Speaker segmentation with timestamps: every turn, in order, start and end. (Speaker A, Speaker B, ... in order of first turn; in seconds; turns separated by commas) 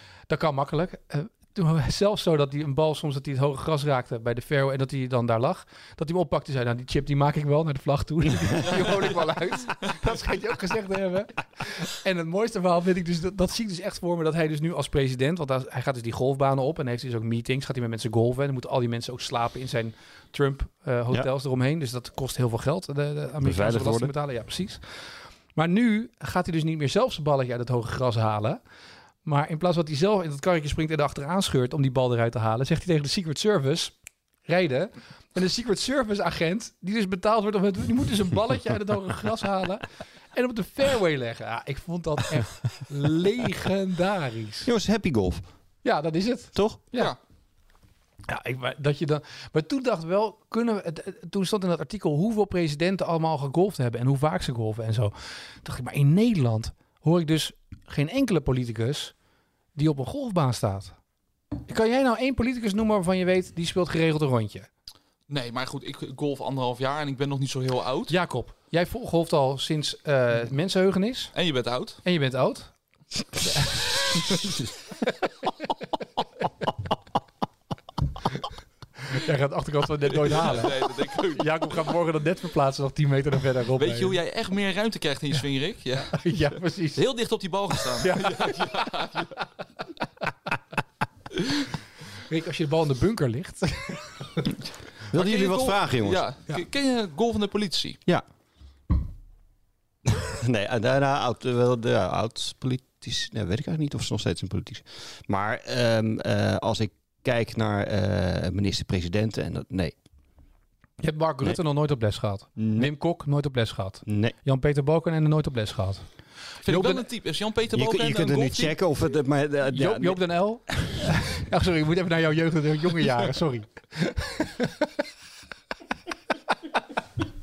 Speaker A: 0.3-25.0, Speaker B: 23.4-24.1, Speaker A: 25.5-28.6, Speaker A: 29.2-33.9, Speaker A: 34.5-44.7, Speaker B: 44.6-45.4, Speaker A: 45.8-47.1, Speaker B: 46.5-46.8, Speaker A: 48.3-59.1, Speaker A: 59.7-60.9, Speaker A: 61.7-64.7, Speaker C: 65.3-68.1, Speaker A: 68.1-71.3, Speaker C: 71.3-72.0, Speaker A: 72.0-72.7, Speaker A: 73.4-74.4, Speaker A: 79.0-84.2, Speaker C: 80.1-81.7, Speaker C: 83.8-86.4, Speaker A: 86.1-87.0, Speaker C: 86.9-89.4, Speaker A: 88.0-88.7, Speaker A: 92.1-94.5, Speaker B: 95.1-96.2, Speaker C: 95.1-98.0, Speaker B: 100.0-109.9, Speaker A: 111.0-116.1, Speaker B: 112.6-112.9, Speaker B: 114.0-114.3, Speaker A: 116.6-117.0, Speaker C: 116.6-118.8, Speaker B: 117.7-120.2, Speaker A: 119.7-124.9